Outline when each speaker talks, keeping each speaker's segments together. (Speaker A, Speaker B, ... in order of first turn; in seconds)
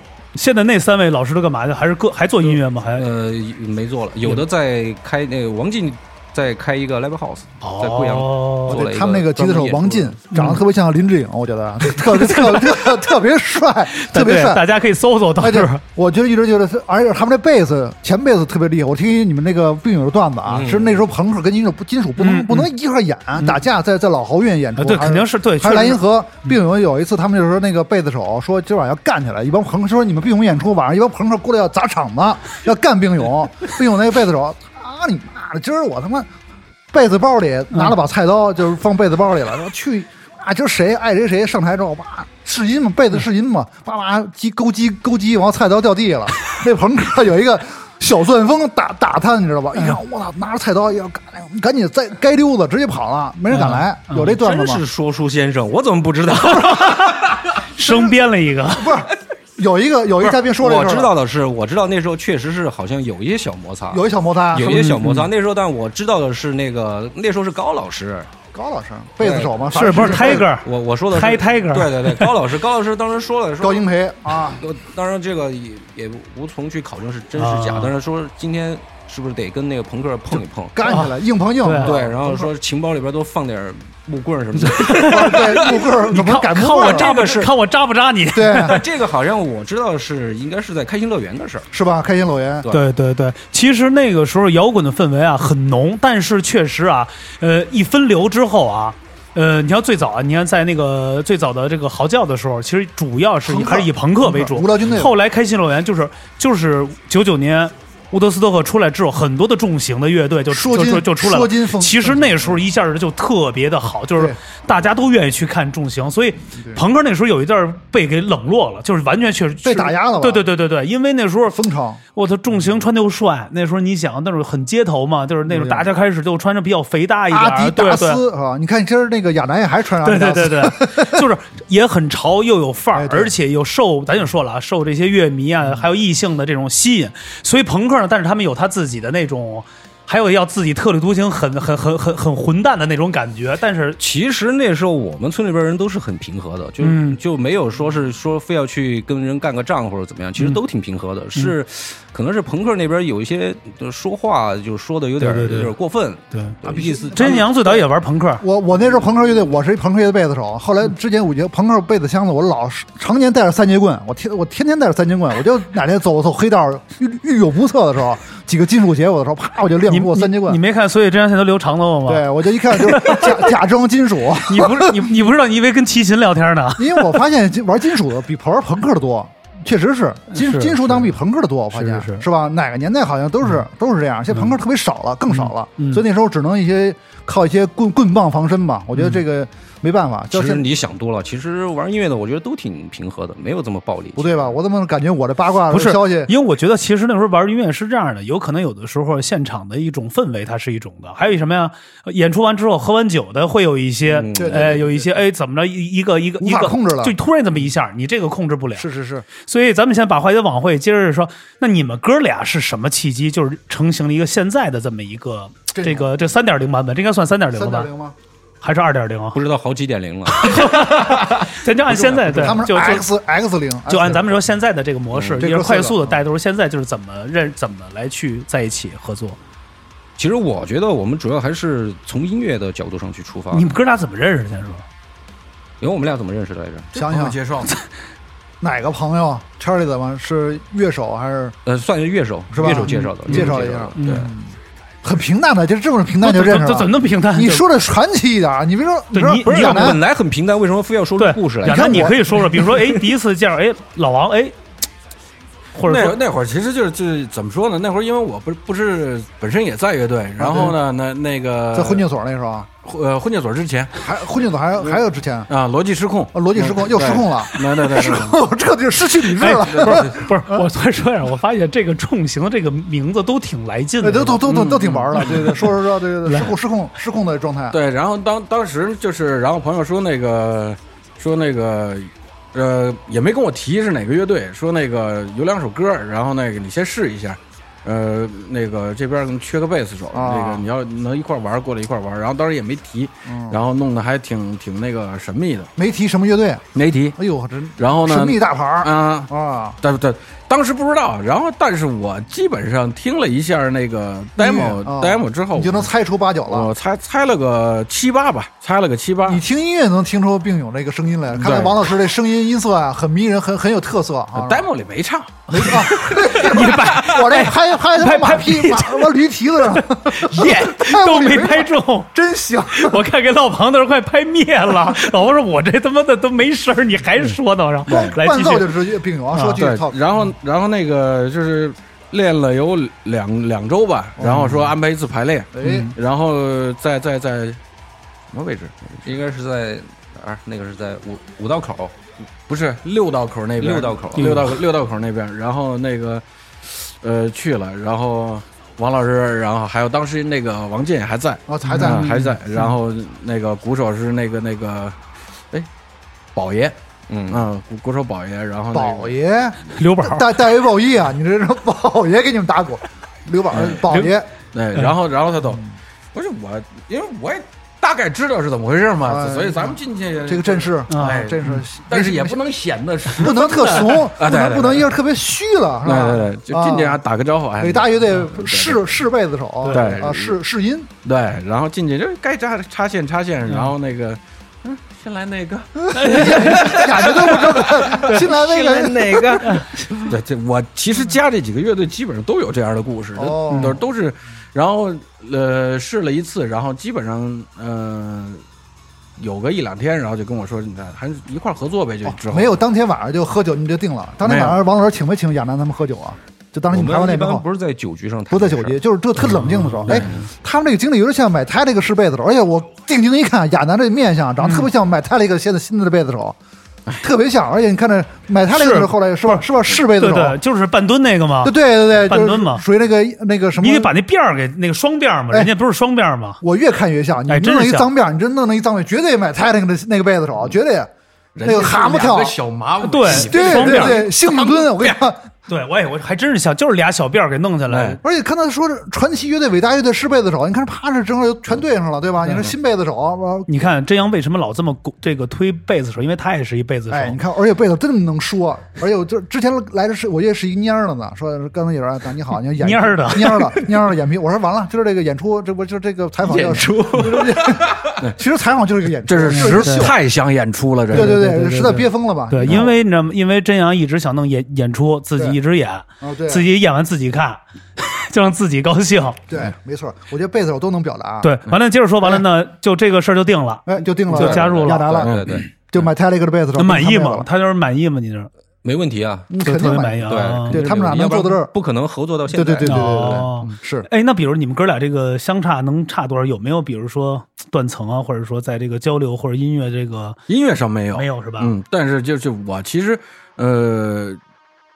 Speaker A: 0.3-3.1, 7.6-8.8, 10.3-10.6, 12.1-12.8, 13.9-15.8, 22.2-22.7, 24.8-26.5, 53.5-54.4, 56.6-59.0, 64.6-65.3, 69.7-72.3, 77.4-77.9, 80.9-81.9, 84.5-88.8, 92.7-121.6, 122.1-128.2, 130.0-144.0, 146.8-147.2, 155.2-155.7, 157.1-158.4, 169.9-173.5, 174.4-177.2, 180.3-181.1, 181.7-182.2, 185.3-186.0, 188.9-189.2, 195.7-217.9, 218.6-219.4, 220.3-223.1, 223.9-229.4, 233.5-234.8, 243.3-244.3, 246.2-247.7, 249.1-250.0, 251.2-254.5, 255.7-256.2, 269.4-274.5, 275.1-275.7, 276.2-276.5, 315.5-319.1, 319.7-322.1, 322.7-329.6, 335.6-335.9, 344.1-344.6, 351.7-352.3, 359.7-360.3, 363.8-364.1, 370.9-371.6, 379.6-380.0, 383.4-383.7, 385.9-386.9, 389.4-389.8, 393.5-393.8, 409.2-410.1, 414.4-414.7, 418.5-422.6, 423.6-426.4, 427.3-427.9, 432.8-434.1, 435.5-438.0, 443.5-447.2, 452.6-453.5, 459.3-459.9, 460.9-469.2, 471.2-475.0, 476.6-478.3, 479.4-480.6, 482.6-490.2, 490.9-491.5
Speaker B: 2.4-10.2, 20.5-21.1, 54.1-57.4, 60.2-68.3, 69.2-73.8, 74.4-81.0, 81.8-86.0, 86.8-87.5, 88.6-91.7, 144.0-157.5, 190.3-194.5, 204.1-204.8, 219.3-220.9, 225.1-225.4, 230.2-233.7, 235.8-236.9, 241.7-244.3, 249.4-253.1, 339.0-341.9, 343.6-344.6, 357.1-357.5, 388.2-389.4, 406.7-408.8, 456.3-457.2, 474.1-475.5, 478.6-479.3, 480.0-483.2
Speaker C: 8.7-14.6, 15.4-36.3, 36.9-54.8, 57.8-58.1, 58.7-61.1, 63.9-64.8, 68.5-70.5, 73.6-74.6, 80.7-82.5, 85.1-87.5, 88.3-88.8, 91.7-92.7, 103.4-105.1, 110.5-112.6, 116.5-116.8, 119.6-120.5, 121.5-122.0, 125.5-125.9, 127.3-131.2, 132.9-133.3, 156.6-157.8, 158.4-170.6, 172.1-175.1, 176.8-190.6, 194.2-196.3, 204.3-205.0, 206.4-207.1, 208.8-209.2, 215.7-216.1, 217.5-218.1, 221.9-224.4, 225.4-226.2, 236.9-237.4, 238.6-241.6, 242.5-250.0, 251.6-252.6, 260.4-260.8, 261.7-262.7, 264.0-265.5, 266.3-270.7, 274.0-277.8, 290.1-290.6, 293.2-293.6, 295.8-296.6, 297.1-299.8, 304.4-306.7, 309.3-314.7, 315.5-323.0, 327.9-330.0, 334.2-334.7, 335.5-335.9, 351.5-352.3, 358.7-364.3, 369.1-372.4, 373.1-377.0, 377.6-380.9, 385.8-389.6, 393.1-393.8, 402.0-407.4, 408.3-416.4, 417.0-420.4, 421.4-423.9, 426.4-430.9, 431.4-432.4, 433.0-435.2, 438.0-443.5, 446.9-459.9, 460.9-462.7, 466.0-466.5, 469.3-471.3, 473.6-477.3, 479.3-481.5, 482.3-483.9
Speaker D: 236.9-237.7, 255.8-262.1, 262.8-264.0, 264.8-268.4, 269.6-270.1, 274.4-275.6, 277.7-295.7, 296.7-297.2, 297.8-299.3, 299.8-305.9, 306.5-309.4, 311.3-311.8, 314.3-316.8, 327.9-328.2, 329.5-337.6, 338.3-339.1, 342.5-355.0, 356.3-356.8, 357.3-359.2, 363.5-363.8, 364.5-365.6, 366.1-374.9, 375.8-378.9, 379.7-380.3, 381.0-388.9, 390.0-398.4, 399.2-402.6, 404.2-404.6, 409.9-410.2, 431.3-435.0, 437.7-438.0, 456.4-458.2, 459.1-461.1, 475.0-475.4, 490.3-494.2